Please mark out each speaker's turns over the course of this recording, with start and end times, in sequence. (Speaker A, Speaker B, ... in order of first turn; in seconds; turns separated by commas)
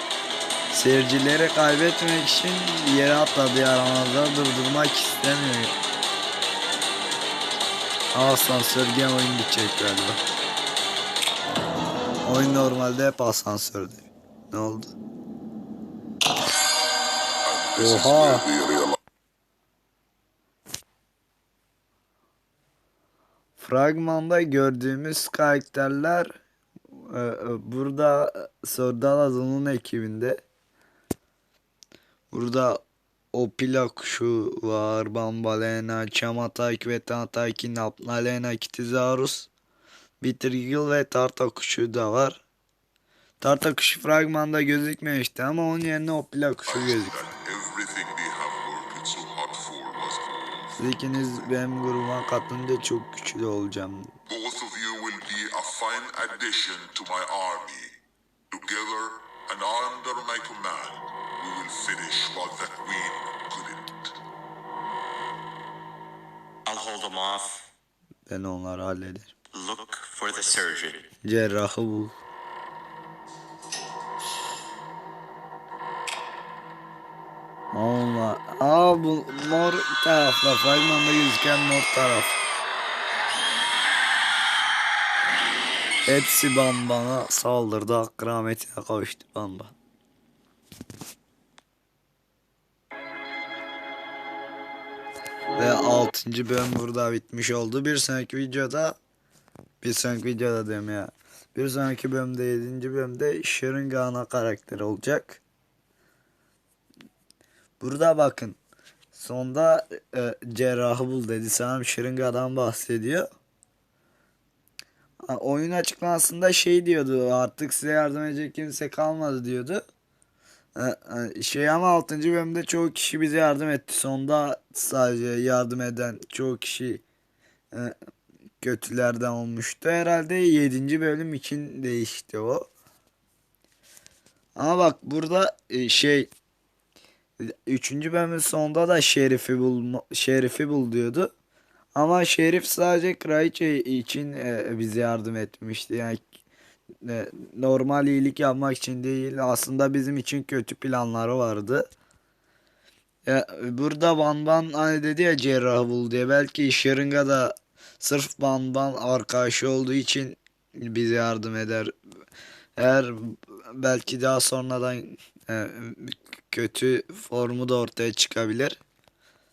Speaker A: 0.7-5.7, Speaker A: 8.1-10.2, Speaker A: 12.2-14.9, Speaker B: 17.4-19.0, Speaker A: 17.8-18.4, Speaker A: 23.6-26.4, Speaker A: 26.9-30.4, Speaker A: 32.3-32.8, Speaker A: 33.3-39.5, Speaker A: 40.2-42.4, Speaker A: 43.4-47.2, Speaker B: 46.7-51.4, Speaker A: 50.8-54.1, Speaker B: 54.3-58.0, Speaker B: 58.5-64.2, Speaker C: 66.7-67.7, Speaker A: 68.3-69.3, Speaker C: 69.5-71.1, Speaker A: 71.2-72.2, Speaker A: 77.7-82.4, Speaker A: 86.1-89.7, Speaker A: 95.5-99.0, Speaker A: 99.8-105.4, Speaker A: 107.8-108.6, Speaker A: 109.1-113.2, Speaker A: 115.3-119.8, Speaker A: 120.8-127.0, Speaker A: 128.6-132.7, Speaker A: 134.6-136.3, Speaker A: 137.4-141.3, Speaker A: 141.9-146.2, Speaker A: 147.0-151.8, Speaker A: 153.2-161.9, Speaker A: 162.8-168.8